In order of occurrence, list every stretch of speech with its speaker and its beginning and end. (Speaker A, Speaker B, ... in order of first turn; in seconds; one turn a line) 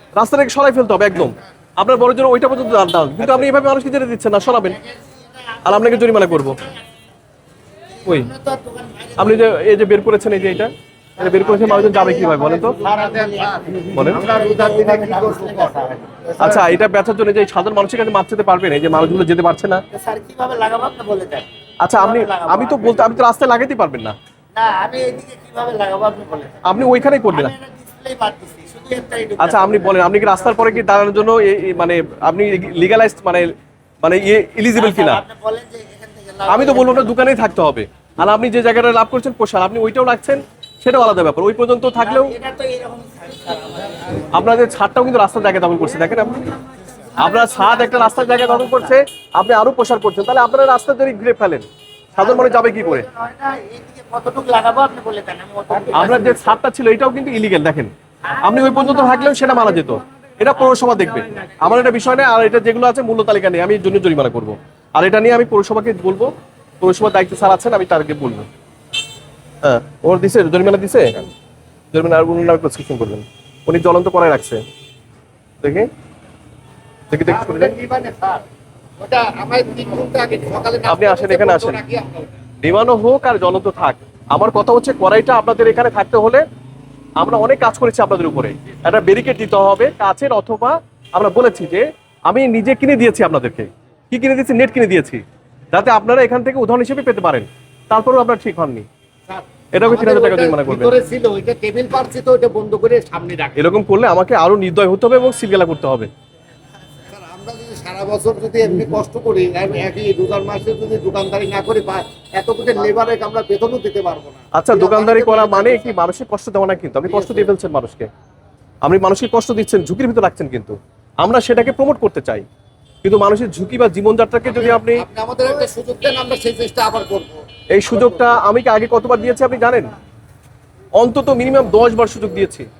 Speaker A: 0.1-4.8
Speaker B: 4.4-6.8
Speaker A: 5.6-6.6
Speaker B: 7.9-9.6
Speaker A: 8.0-8.3
Speaker A: 9.2-12.8
Speaker B: 11.2-16.0
Speaker C: 11.4-16.2
Speaker A: 13.9-14.2
Speaker A: 16.4-19.8
Speaker B: 19.9-23.2
Speaker A: 21.8-24.1
Speaker B: 24.5-26.6
Speaker A: 26.6-27.5
Speaker B: 27.2-30.6
Speaker A: 29.4-33.5
Speaker A: 34.0-35.2
Speaker B: 34.7-37.1
Speaker A: 36.5-42.3
Speaker B: 41.9-44.5
Speaker A: 44.3-46.5
Speaker B: 47.0-49.0
Speaker A: 47.2-53.1
Speaker B: 52.1-56.5
Speaker C: 55.9-56.2
Speaker A: 55.9-68.5
Speaker B: 58.3-60.0
Speaker B: 60.6-62.0
Speaker A: 69.6-71.2
Speaker A: 71.9-74.6
Speaker A: 75.6-75.9
Speaker A: 77.1-77.8
Speaker C: 77.3-78.4
Speaker C: 79.0-82.3
Speaker A: 80.9-81.8
Speaker A: 82.6-86.4
Speaker A: 87.2-95.2
Speaker A: 95.7-98.8
Speaker C: 99.3-103.6
Speaker A: 99.7-101.0
Speaker A: 103.5-106.1
Speaker C: 107.1-116.0
Speaker A: 114.5-118.1
Speaker C: 117.0-117.5
Speaker A: 118.8-122.4
Speaker A: 123.0-125.0
Speaker C: 124.4-127.4
Speaker A: 127.7-129.9
Speaker C: 127.9-128.4
Speaker A: 131.0-132.7